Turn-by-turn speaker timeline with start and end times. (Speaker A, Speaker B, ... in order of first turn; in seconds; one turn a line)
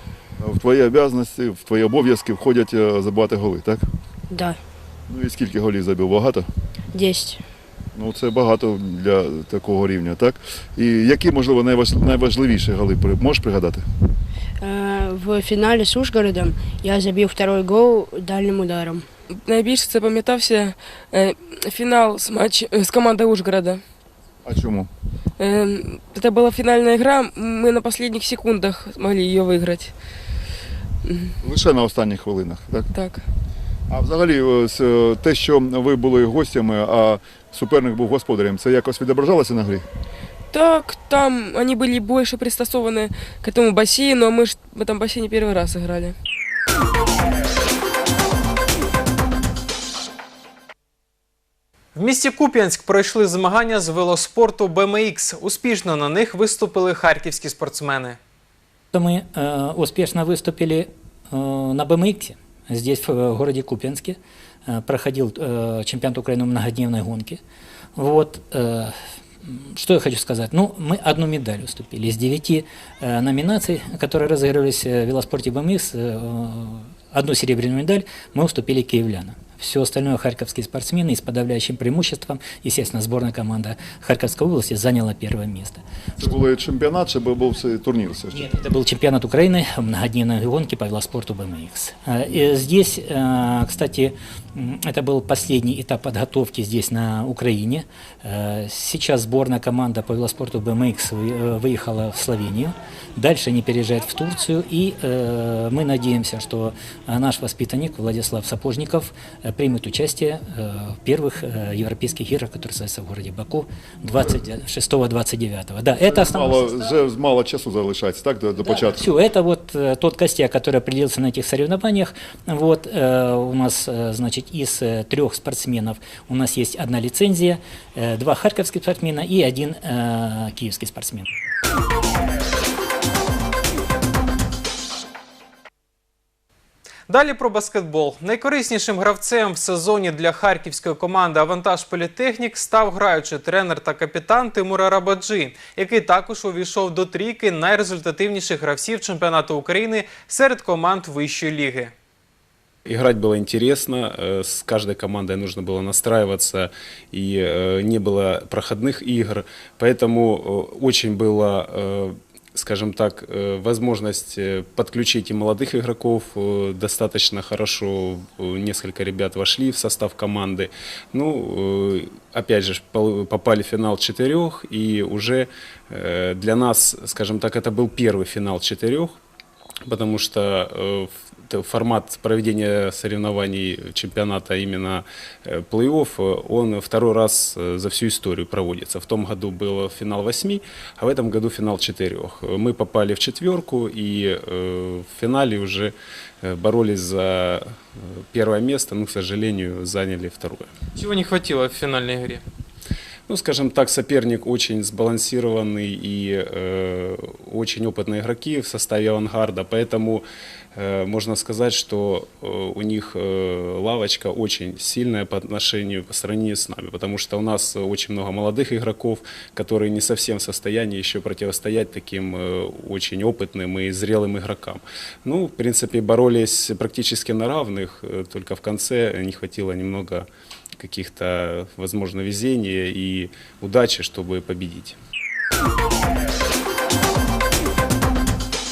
Speaker A: 0.4-3.8
Speaker B: 4.3-4.6
Speaker A: 5.1-6.5
Speaker B: 6.9-7.4
Speaker A: 7.9-13.8
Speaker B: 14.6-19.1
Speaker C: 19.3-23.8
Speaker A: 24.4-24.9
Speaker C: 25.4-29.9
Speaker C: 31.1-31.3
Speaker A: 31.4-32.9
Speaker C: 32.9-33.2
Speaker A: 33.9-39.9
Speaker C: 40.5-46.1
Speaker D: 51.9-58.2
Speaker E: 58.9-67.4
Speaker E: 68.0-86.3
Speaker A: 86.2-88.4
Speaker E: 88.3-117.0
Speaker A: 116.0-119.1
Speaker E: 118.6-131.3
Speaker D: 137.1-151.9
Speaker F: 152.8-179.2
Speaker F: 179.8-200.7
Speaker D: 200.9-202.4
Speaker F: 203.3-230.3
Speaker F: 230.8-235.0